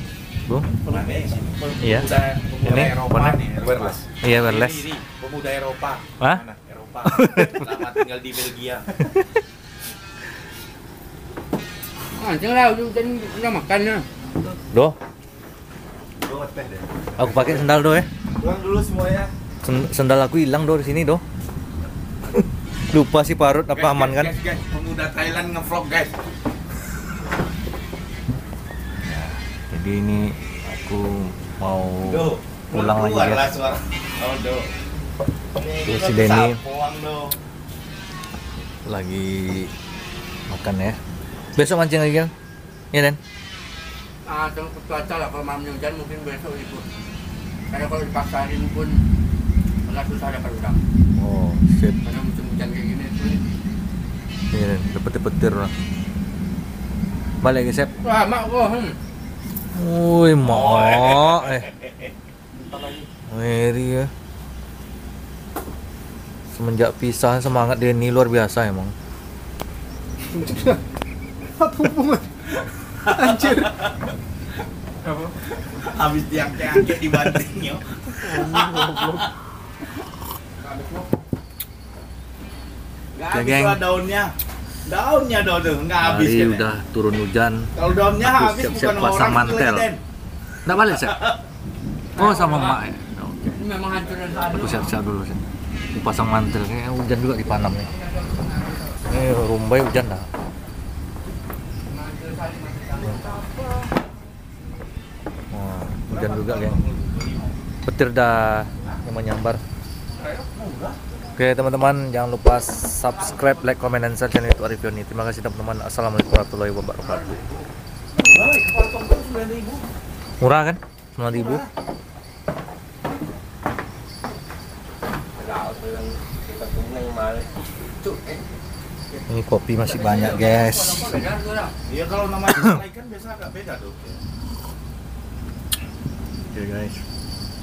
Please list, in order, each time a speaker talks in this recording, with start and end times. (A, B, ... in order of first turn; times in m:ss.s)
0:00.8-0:09.0 A
0:01.8-0:02.1 B
0:02.6-0:03.4 B
0:04.1-0:04.9 B
0:07.0-0:07.6 B
0:12.1-0:14.0 C
0:14.7-0:15.0 B
0:16.2-0:17.8 A
0:17.2-0:18.1 B
0:18.4-0:19.3 A
0:19.6-0:21.2 B
0:22.8-0:24.3 B
0:23.7-0:26.1 A
0:29.0-0:33.5 B
0:32.0-0:34.7 A
0:35.6-0:37.4 A
0:35.8-0:36.6 B
0:38.8-0:39.7 B
0:40.5-0:41.0 B
0:41.6-0:42.3 B
0:42.9-0:43.2 B
0:44.2-0:46.8 C
0:47.7-0:49.0 C
0:49.8-0:50.8 C
0:51.1-0:52.0 B
0:52.0-0:53.4 C
0:54.5-0:55.7 B
0:57.4-0:57.9 B
0:58.0-0:59.0 C
0:59.7-1:01.7 B
1:00.4-1:02.1 A
1:02.6-1:03.1 C
1:03.3-1:04.1 B
1:06.5-1:08.9 B
1:13.0-1:13.9 A
1:15.6-1:19.3 A
1:20.7-1:21.0 C
1:23.1-1:24.3 A
1:23.3-1:23.8 B
1:24.8-1:26.6 A
1:26.0-1:29.9 B
1:27.7-1:30.0 A
1:30.6-1:31.3 B
1:30.9-1:31.4 A
1:32.1-1:33.6 B
1:32.2-1:32.8 C
1:33.6-1:34.9 C
1:34.4-1:37.9 B
1:38.2-1:38.9 C
1:39.0-1:40.3 B
1:41.9-1:43.4 C
1:45.5-1:46.8 B
1:46.1-1:47.5 A
1:47.8-1:49.6 B
1:50.4-1:50.9 A
1:51.4-1:57.4 B
1:57.0-1:57.6 C
1:58.2-1:59.8 A
2:00.4-2:01.6 B
2:05.4-2:07.5 A
2:09.3-2:11.1 B
2:09.8-2:11.7 C
2:11.9-2:14.2 A
2:16.5-2:17.0 B